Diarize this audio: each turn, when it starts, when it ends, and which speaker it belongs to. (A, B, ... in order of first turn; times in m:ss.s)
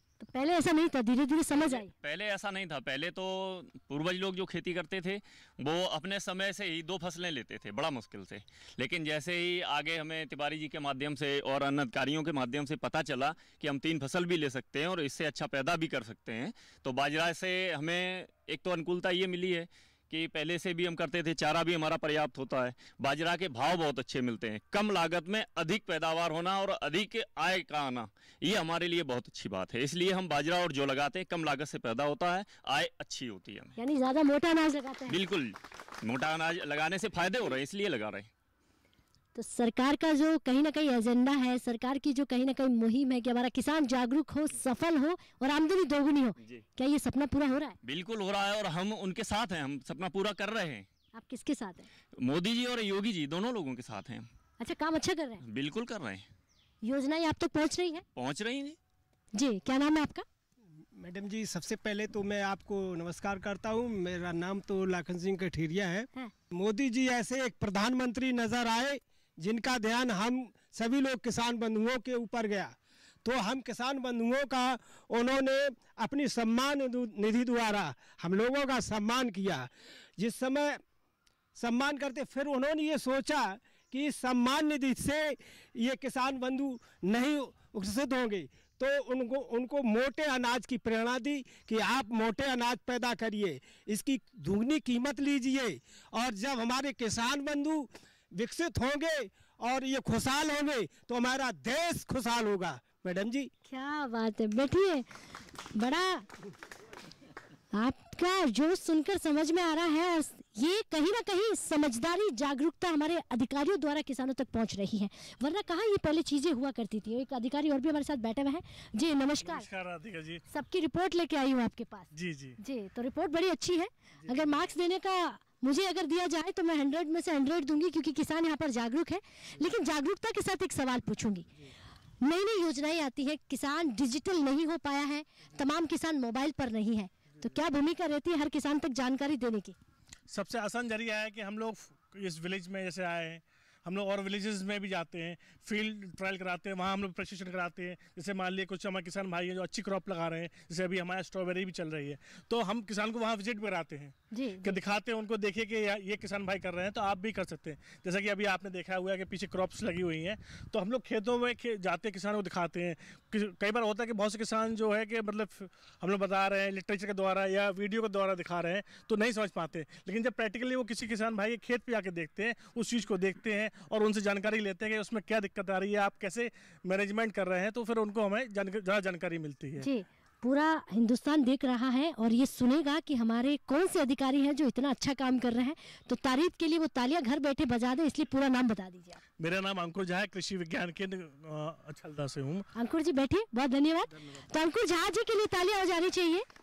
0:00.2-0:01.9 A
0:01.6-0:33.8 B
0:33.8-0:35.2 A
0:35.1-0:38.3 B
0:39.4-0:47.8 A
0:47.8-0:50.9 B
0:51.1-0:51.9 A
0:52.2-0:54.3 B
0:54.6-0:55.4 A
0:55.4-0:56.2 B
0:56.8-0:58.0 A
0:58.2-0:58.8 B
0:59.4-1:00.2 A
1:01.0-1:12.7 C
1:13.2-1:20.8 C
1:21.6-1:43.5 C
1:43.7-1:45.1 A
1:45.8-1:46.3 A
1:47.7-1:59.7 A
1:59.4-2:00.4 D
2:00.5-2:11.5 A
2:02.1-2:02.6 D
2:04.2-2:04.7 D
2:12.2-2:19.8 A
2:20.3-2:59.9 D
2:34.3-2:34.8 A
2:59.8-3:09.2 A
3:09.4-3:12.7 D
3:12.8-3:16.5 A